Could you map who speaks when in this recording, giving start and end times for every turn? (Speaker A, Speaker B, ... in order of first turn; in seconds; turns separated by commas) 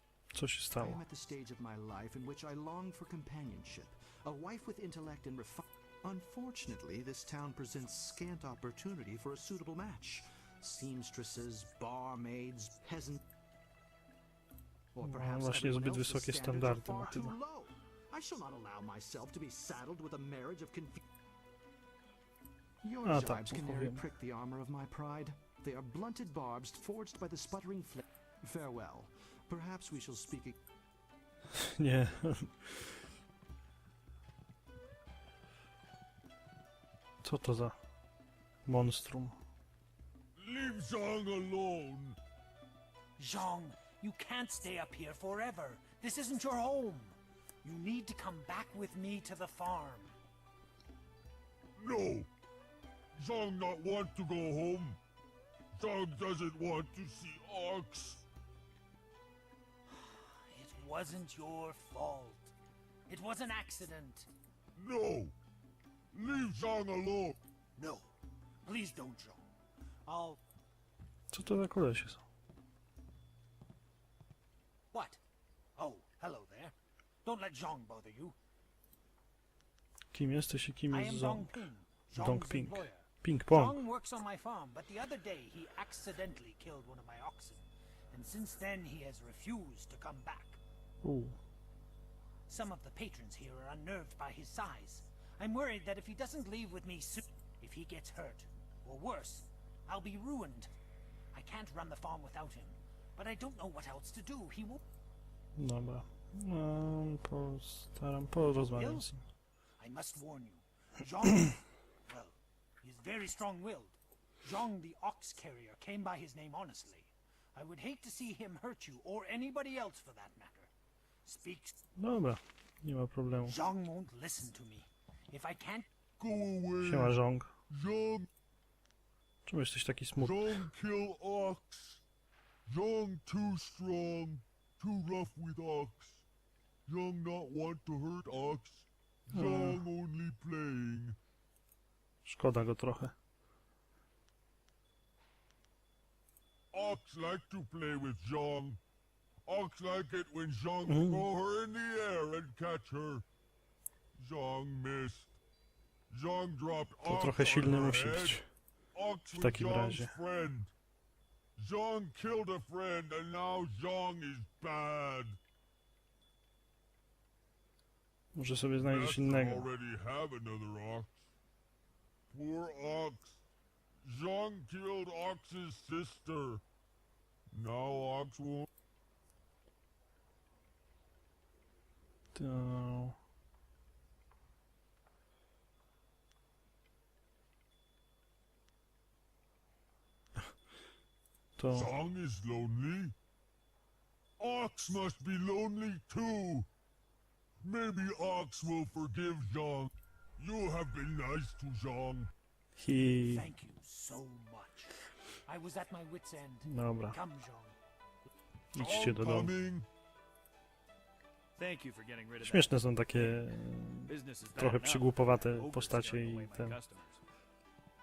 Speaker A: 0.3-1.0, Speaker B: 0.8-13.2, Speaker B: 14.9-21.0, Speaker A: 15.0-17.4, Speaker B: 22.8-30.6, Speaker A: 23.0-24.0, Speaker A: 31.6-33.0, Speaker A: 37.2-37.8, Speaker A: 38.7-39.4, Speaker C: 40.4-42.2, Speaker D: 43.2-50.1, Speaker C: 51.8-52.3, Speaker C: 53.2-55.0, Speaker C: 55.8-58.2, Speaker D: 59.9-62.5, Speaker D: 63.1-64.3, Speaker C: 64.8-65.3, Speaker C: 66.1-67.4, Speaker D: 67.8-68.1, Speaker D: 68.6-69.5, Speaker D: 70.1-70.4, Speaker A: 71.3-72.2, Speaker D: 74.9-75.2, Speaker D: 75.8-78.4, Speaker A: 80.1-83.8, Speaker D: 80.9-90.6, Speaker A: 91.0-91.4, Speaker D: 92.5-100.7, Speaker D: 101.3-104.8, Speaker A: 105.6-109.2, Speaker D: 108.7-109.1, Speaker D: 109.8-120.7, Speaker D: 121.2-121.8, Speaker A: 122.0-123.6, Speaker D: 123.4-125.9, Speaker C: 126.2-127.2, Speaker A: 126.8-127.5, Speaker C: 127.7-128.3, Speaker A: 129.5-130.7, Speaker C: 130.2-132.0, Speaker C: 132.7-136.2, Speaker C: 136.9-141.2, Speaker A: 139.3-139.8, Speaker A: 142.2-143.1, Speaker C: 146.7-148.8, Speaker C: 149.5-153.2, Speaker A: 150.9-151.3, Speaker C: 154.2-155.3, Speaker C: 156.1-158.4, Speaker A: 157.1-158.5, Speaker C: 158.9-160.7, Speaker A: 159.4-160.2, Speaker C: 161.6-165.4, Speaker A: 168.4-169.7, Speaker C: 168.8-171.2, Speaker C: 172.3-173.4, Speaker C: 174.1-176.6, Speaker C: 177.5-178.7, Speaker A: 182.3-183.2, Speaker A: 191.6-191.9, Speaker C: 191.7-193.1, Speaker C: 194.4-196.7, Speaker C: 197.6-202.3, Speaker A: 202.8-203.5, Speaker D: 203.3-207.8, Speaker A: 206.7-207.2, Speaker A: 208.8-209.6, Speaker C: 208.8-209.9, Speaker E: 211.6-213.4, Speaker A: 212.4-216.8, Speaker E: 214.0-217.2